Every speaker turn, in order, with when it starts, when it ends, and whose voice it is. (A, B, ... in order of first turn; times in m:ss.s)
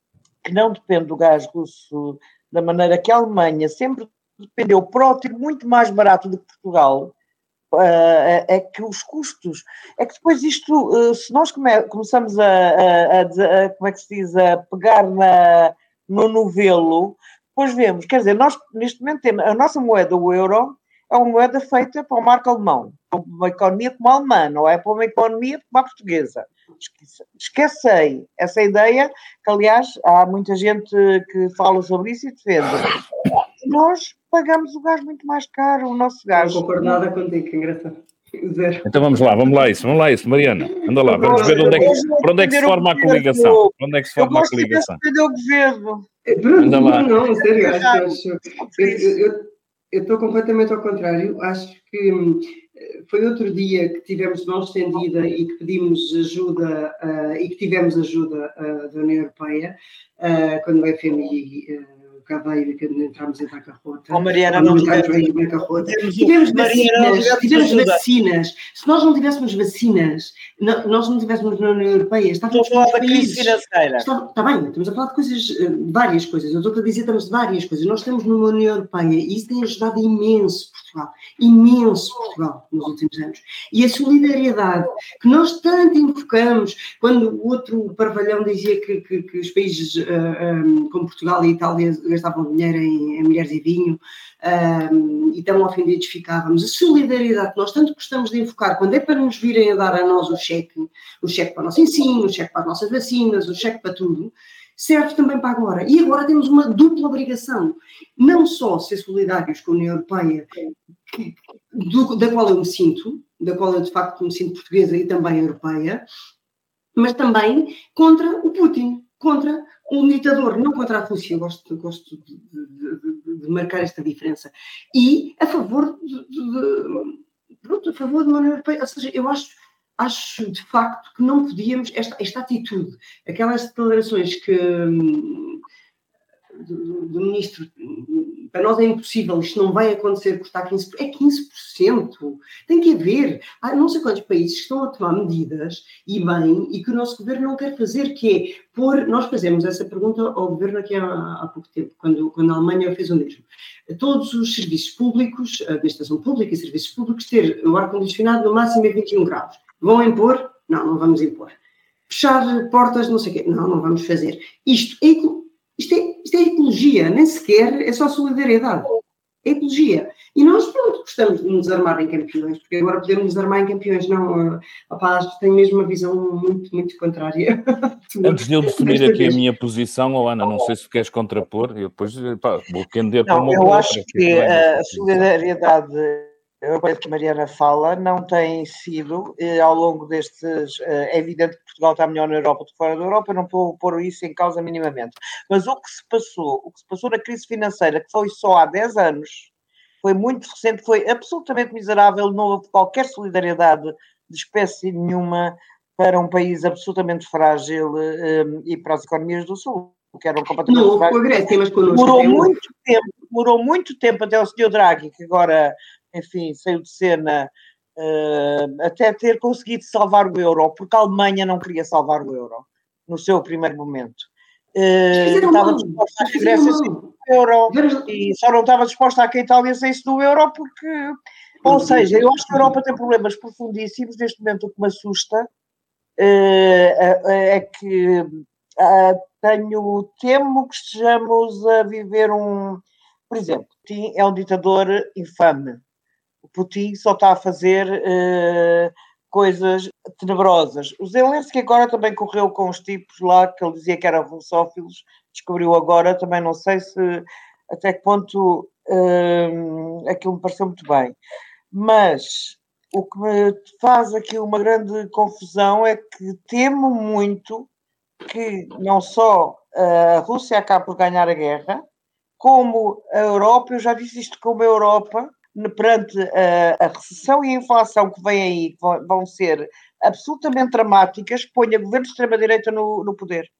0:00.4-0:07.1 A
0:07.7-0:32.9 A
0:33.6-0:37.0 A
0:36.3-0:39.2 B
0:38.9-0:45.0 C
0:41.0-0:42.0 B
0:41.2-0:46.1 A
0:46.3-1:50.5 B
0:46.6-0:47.1 C
0:47.6-0:49.1 A
1:04.1-1:08.0 A
1:12.5-1:14.1 A
1:51.1-1:56.1 B
1:57.0-2:15.6 B
2:16.5-2:41.6 B
2:42.1-2:48.9 B
2:49.4-2:59.4 B
2:58.2-3:05.1 C
3:03.3-3:19.5 A
3:20.0-3:55.5 A
3:30.7-3:32.6 B
3:45.1-3:47.1 B
3:47.7-3:48.1 B
3:56.2-4:05.8 A
4:06.4-4:21.2 A
4:21.7-4:27.7 A
4:28.2-4:31.8 A
4:32.4-4:43.5 A